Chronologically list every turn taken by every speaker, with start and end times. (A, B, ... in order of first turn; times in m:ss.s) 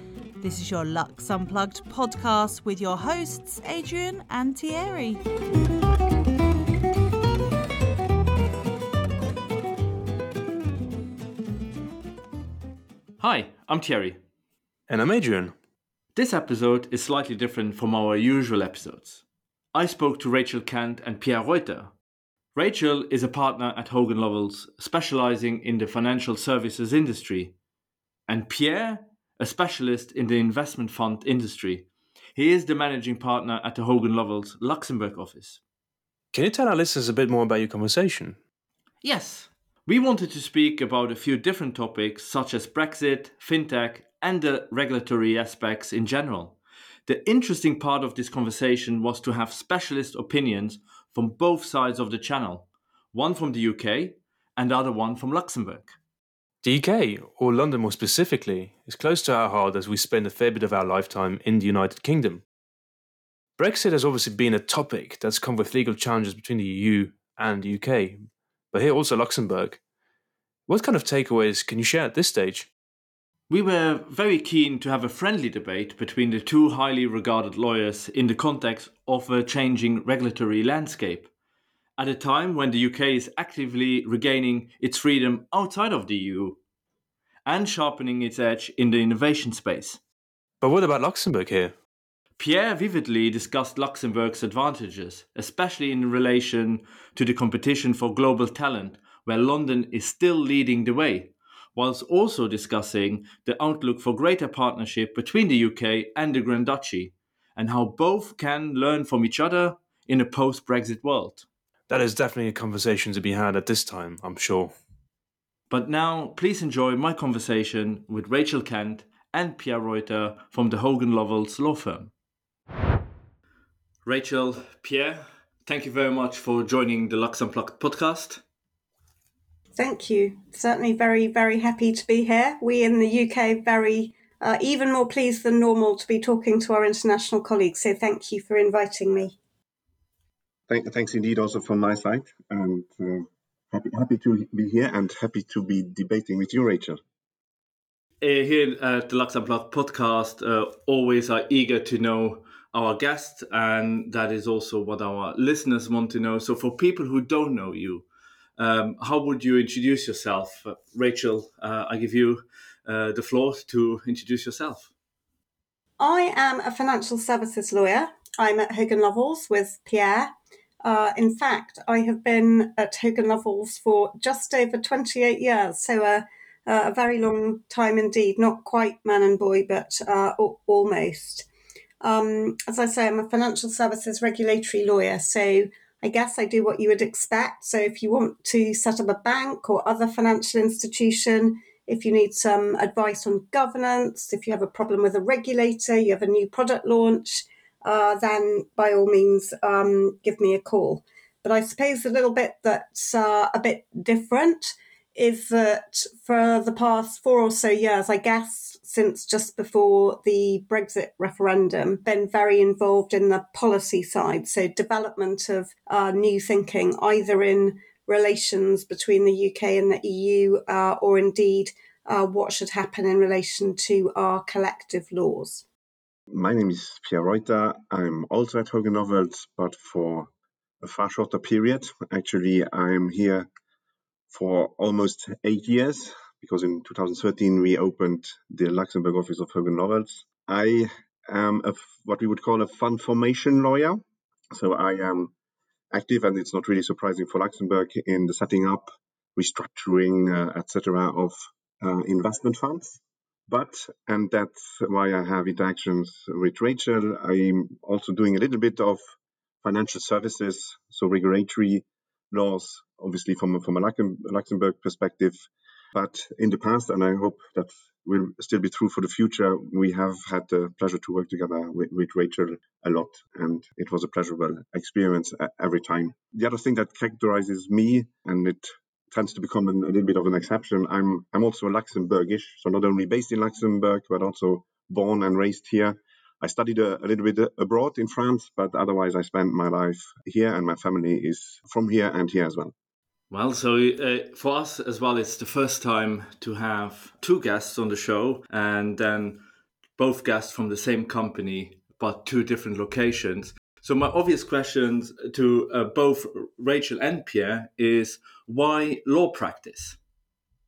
0:00.4-0:05.2 A
0:13.2-0:14.2 B
0:14.9-0:15.5 C
0:16.1-0:19.2 B
0:19.7-0:21.9 B
0:22.5-0:27.5 B
0:28.3-0:35.6 B
0:36.3-0:38.4 C
0:39.0-0:56.0 B
0:56.6-1:02.4 C
1:03.6-1:09.8 C
1:10.7-1:12.7 C
1:13.5-1:21.3 B
1:22.0-1:26.6 B
1:27.4-1:30.0 B
1:30.6-1:31.7 C
1:32.4-1:51.4 B
1:51.9-1:54.7 C
1:55.7-2:02.1 B
2:04.0-2:08.4 B
2:09.8-2:19.4 D
2:20.7-2:27.0 E
2:28.2-2:38.0 B
2:38.6-2:44.9 B
2:46.0-2:50.3 D
2:50.8-3:01.5 D
3:02.0-3:45.6 D
3:46.3-3:50.3 E
3:50.8-3:53.5 E
3:54.3-4:05.3 E
4:05.9-4:19.0 E
4:19.6-4:25.4 E
4:25.9-4:52.7 E
4:53.3-4:59.4 B
5:00.0-5:10.0 B